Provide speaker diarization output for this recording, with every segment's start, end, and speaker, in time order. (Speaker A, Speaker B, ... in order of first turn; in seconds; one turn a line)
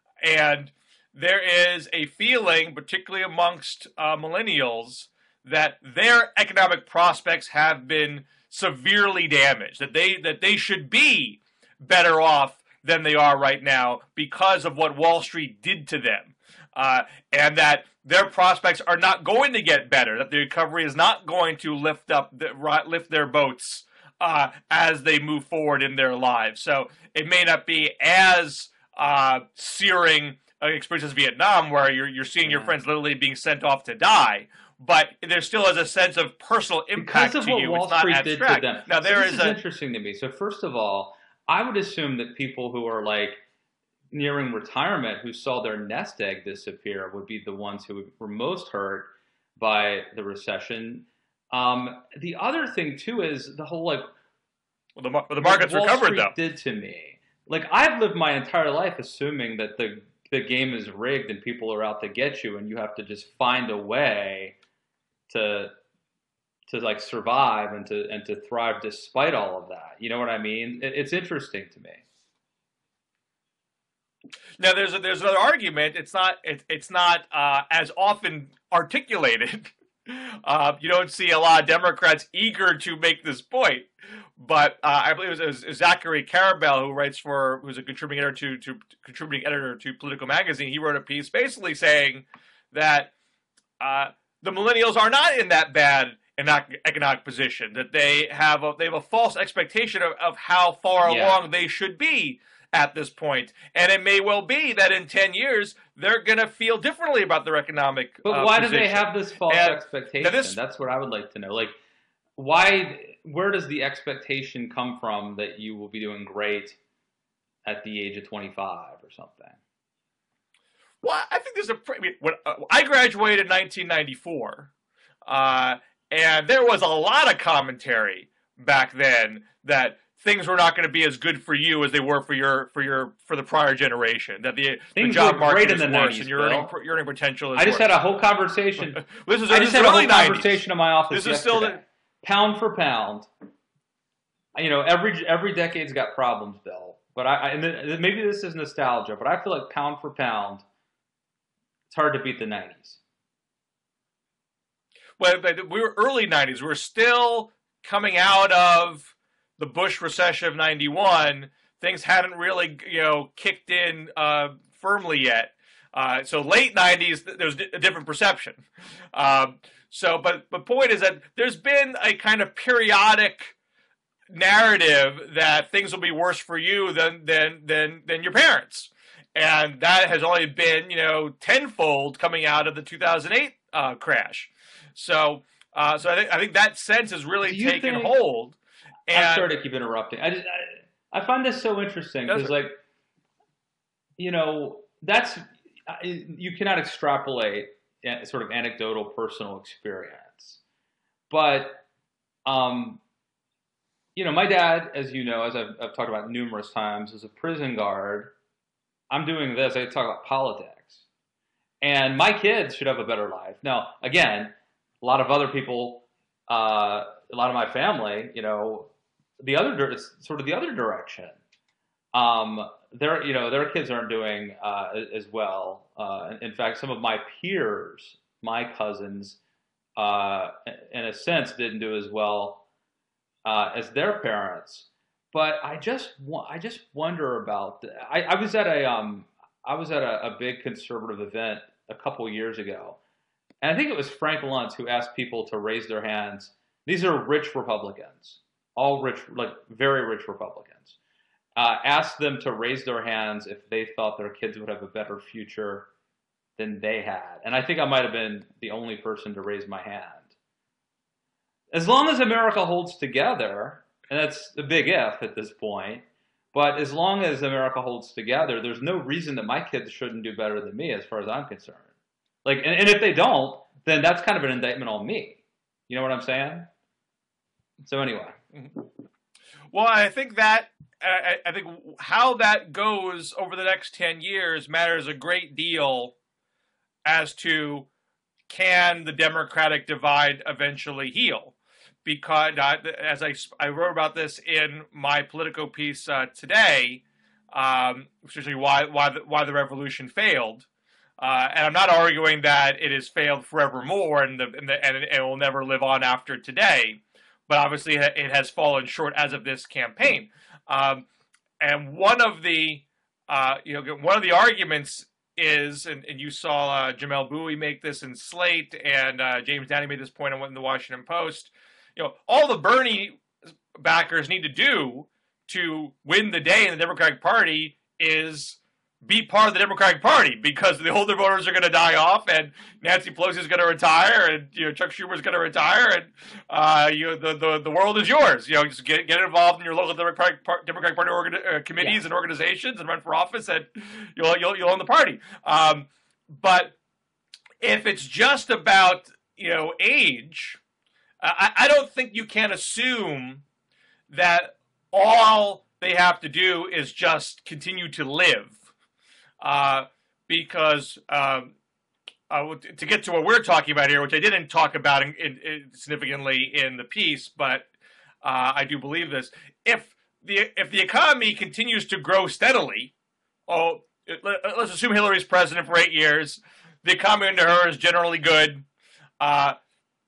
Speaker A: 0.2-39.6
Speaker B: 32.5-32.7
Speaker B: 37.0-43.4
Speaker B: 44.1-54.1
Speaker A: 55.0-56.3
Speaker B: 55.4-64.6
Speaker B: 65.3-65.7
Speaker B: 66.7-72.0
Speaker A: 74.6-93.1
Speaker A: 93.8-110.6
Speaker B: 101.0-101.4
Speaker B: 108.2-111.7
Speaker B: 112.4-116.8
Speaker B: 117.6-119.6
Speaker A: 121.0-124.7
Speaker A: 125.3-137.9
Speaker B: 134.9-136.7
Speaker B: 137.6-143.3
Speaker A: 138.8-141.8
Speaker B: 144.5-150.7
Speaker B: 151.9-153.0
Speaker A: 155.2-173.5
Speaker A: 174.3-188.6
Speaker B: 187.4-188.1
Speaker A: 189.1-189.5
Speaker B: 189.1-192.8
Speaker A: 192.3-192.5
Speaker B: 194.2-200.6
Speaker B: 201.3-201.8
Speaker B: 202.4-203.0
Speaker B: 204.1-208.3
Speaker B: 209.1-211.0
Speaker B: 211.8-221.4
Speaker B: 222.1-229.4
Speaker B: 230.0-232.6
Speaker B: 233.4-243.0
Speaker B: 243.6-250.9
Speaker B: 251.6-255.9
Speaker B: 256.6-260.3
Speaker B: 261.7-271.9
Speaker B: 272.4-276.7
Speaker B: 277.8-278.4
Speaker A: 279.7-286.1
Speaker A: 287.0-287.9
Speaker A: 288.5-300.7
Speaker A: 301.2-311.1
Speaker A: 311.6-323.2
Speaker A: 323.7-346.8
Speaker B: 341.8-342.0
Speaker A: 347.6-350.6
Speaker A: 351.2-353.4
Speaker A: 354.1-358.6
Speaker A: 359.4-361.5
Speaker A: 362.3-367.7
Speaker A: 368.2-372.9
Speaker A: 373.5-378.6
Speaker A: 379.2-379.6